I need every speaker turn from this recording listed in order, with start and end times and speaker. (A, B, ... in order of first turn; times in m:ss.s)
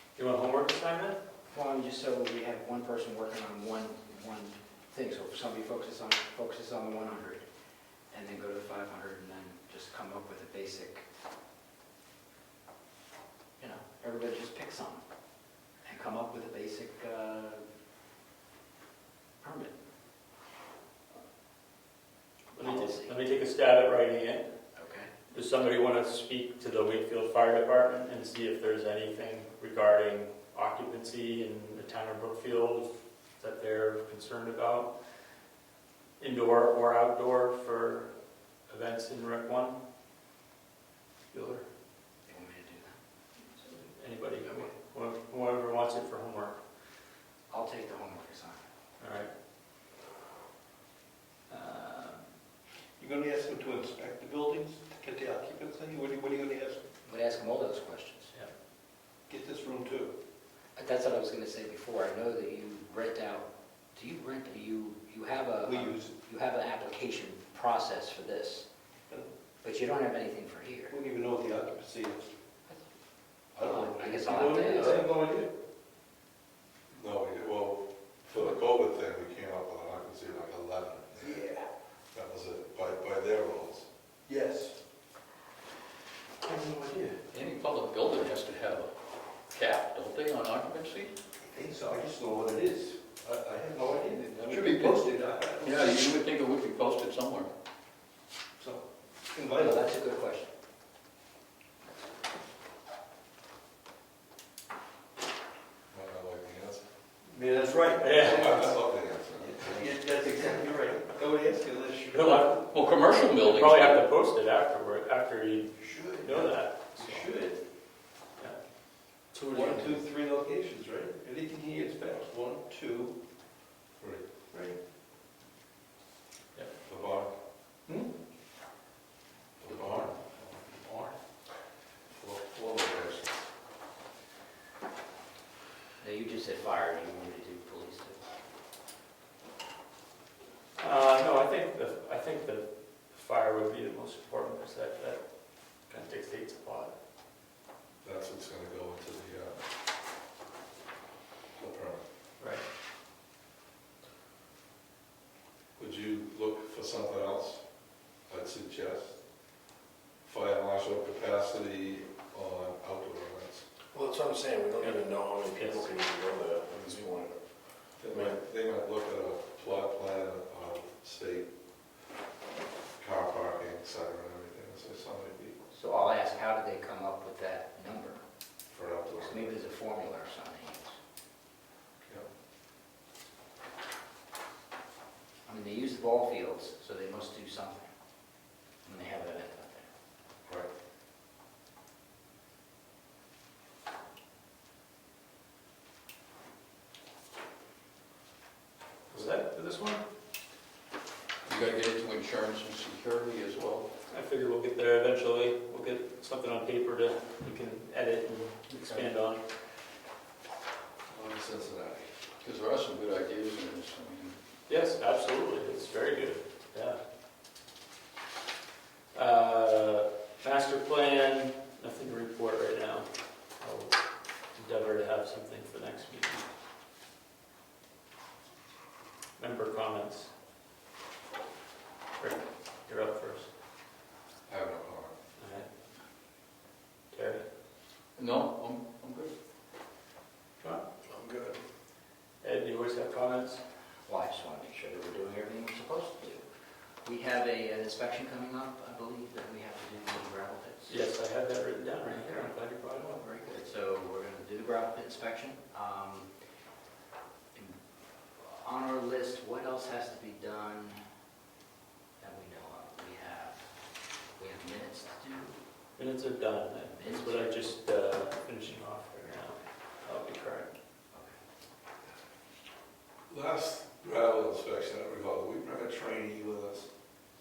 0:00.2-0:01.2 A
0:01.5-0:07.4 B
0:08.1-0:11.0 B
0:13.6-0:15.0 B
0:15.8-0:17.6 B
0:19.4-0:19.8 B
0:22.5-0:24.5 A
0:22.6-0:23.2 B
0:24.8-0:25.1 B
0:25.3-0:34.9 A
0:36.2-0:38.1 A
0:38.7-0:39.8 A
0:41.3-0:41.6 A
0:42.3-0:43.0 B
0:43.6-0:46.6 A
0:47.5-0:48.6 B
0:49.0-0:49.3 A
0:51.5-0:52.2 A
0:53.0-0:56.8 C
0:57.0-0:58.3 B
0:59.3-1:00.2 C
1:00.8-1:08.7 B
1:05.6-1:06.1 C
1:09.6-1:10.9 B
1:10.9-1:12.3 C
1:13.6-1:15.1 B
1:13.6-1:15.5 C
1:14.5-1:14.8 D
1:16.9-1:21.4 E
1:21.2-1:21.6 C
1:22.1-1:23.9 E
1:24.3-1:24.8 C
1:26.4-1:27.2 C
1:27.3-1:28.9 D
1:29.5-1:31.1 D
1:31.4-1:36.0 C
1:34.3-1:35.0 D
1:35.6-1:37.5 D
1:38.6-1:39.9 C
1:39.5-1:40.5 B
1:45.9-1:46.8 E
1:47.3-1:48.8 C
1:48.0-1:48.4 A
1:48.2-1:50.0 E
1:49.4-1:52.8 C
1:52.1-1:52.6 A
1:52.4-1:54.1 D
1:53.4-1:55.7 A
1:55.8-1:57.6 C
1:56.2-1:57.2 A
1:59.3-1:59.8 A
1:59.5-2:03.1 C
2:04.5-2:04.8 C
2:06.8-2:07.3 E
2:09.6-2:10.1 E
2:12.1-2:13.4 E
2:16.0-2:18.2 B
2:20.8-2:25.2 A
2:25.9-2:26.9 A
2:28.0-2:29.6 E
2:31.6-2:32.0 E
2:32.4-2:32.6 A
2:35.8-2:37.6 E
2:38.3-2:39.2 E
2:40.2-2:43.6 E
2:43.9-2:47.4 F
2:44.8-2:45.9 A
2:48.0-2:51.5 E
2:48.0-2:48.4 F
2:53.0-2:55.6 E
2:55.7-2:58.2 B
2:58.7-2:59.6 E
2:59.1-3:01.0 B
3:05.4-3:07.9 B
3:08.8-3:09.9 B
3:10.4-3:10.7 E
3:19.1-3:20.0 A
3:21.4-3:23.9 D
3:24.1-3:29.4 A
3:31.1-3:32.1 E
3:32.4-3:34.4 D
3:34.7-3:37.0 A
3:39.1-3:43.1 A
3:43.6-3:43.9 A
3:44.5-3:46.4 A
3:49.4-3:50.3 A
3:52.2-3:53.5 A
3:54.4-3:55.1 E
3:55.4-3:55.7 A
3:57.1-3:57.4 A
3:58.2-3:59.3 D
4:01.1-4:01.6 F
4:02.4-4:03.6 A
4:04.1-4:06.4 B
4:07.0-4:11.0 B
4:10.9-4:13.2 A
4:12.0-4:16.3 B
4:18.4-4:21.0 B
4:22.2-4:23.7 B
4:24.4-4:25.6 B
4:26.0-4:30.7 A
4:26.9-4:27.6 B
4:31.1-4:31.4 B
4:33.3-4:36.9 E